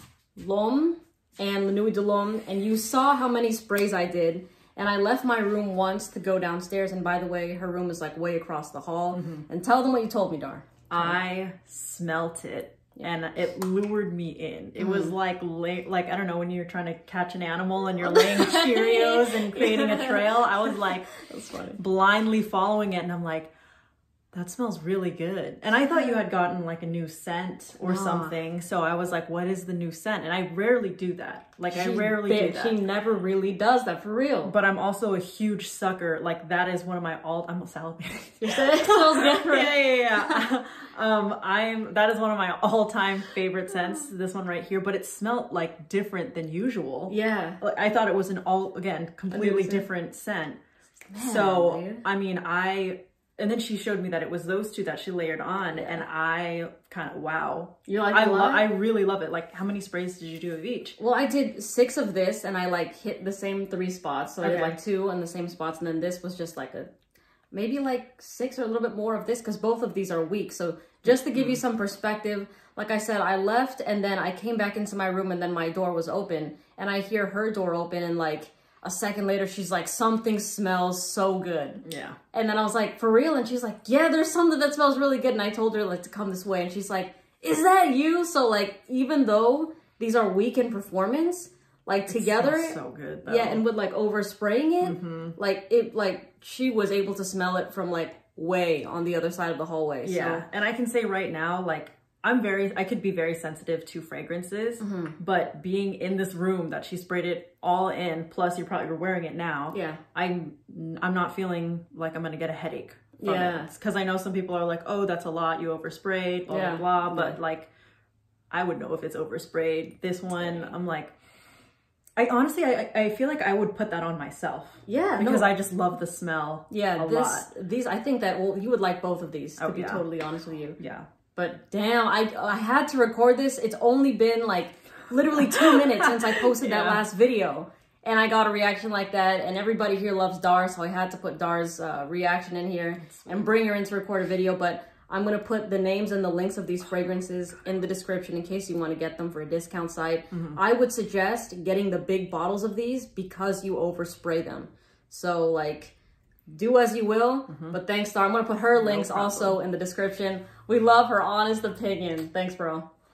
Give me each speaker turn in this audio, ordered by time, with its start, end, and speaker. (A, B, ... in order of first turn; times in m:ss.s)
0:00.4-0:11.2 A
0:10.9-0:21.1 B
0:14.8-0:15.1 A
0:18.0-0:21.8 A
0:21.8-0:23.5 B
0:24.3-0:32.8 B
0:27.8-0:28.3 A
0:31.7-0:34.5 A
0:34.4-0:50.6 B
0:38.4-0:40.4 A
0:47.1-0:47.6 A
0:49.3-0:49.9 A
0:51.1-0:52.0 A
0:51.2-1:01.0 B
0:55.8-0:56.0 A
0:57.9-0:58.7 A
1:01.0-1:06.9 A
1:04.4-1:04.8 B
1:07.5-1:40.4 A
1:11.3-1:11.6 B
1:21.8-1:22.2 B
1:32.1-1:33.6 B
1:34.8-1:35.3 B
1:40.0-1:57.7 B
1:44.8-1:45.2 A
1:49.7-1:50.0 A
1:53.2-1:53.7 A
1:56.5-1:57.4 A
1:58.5-2:01.1 B
2:00.4-2:00.7 A
2:02.2-2:07.5 B
2:04.8-2:05.5 A
2:06.7-2:10.8 A
2:09.6-2:10.1 B
2:10.8-2:11.1 B
2:11.3-2:35.9 A
2:15.4-2:17.0 B
2:23.1-2:23.5 B
2:30.3-2:30.6 B
2:36.5-2:42.9 A
2:37.5-2:37.8 B
2:38.8-2:39.6 B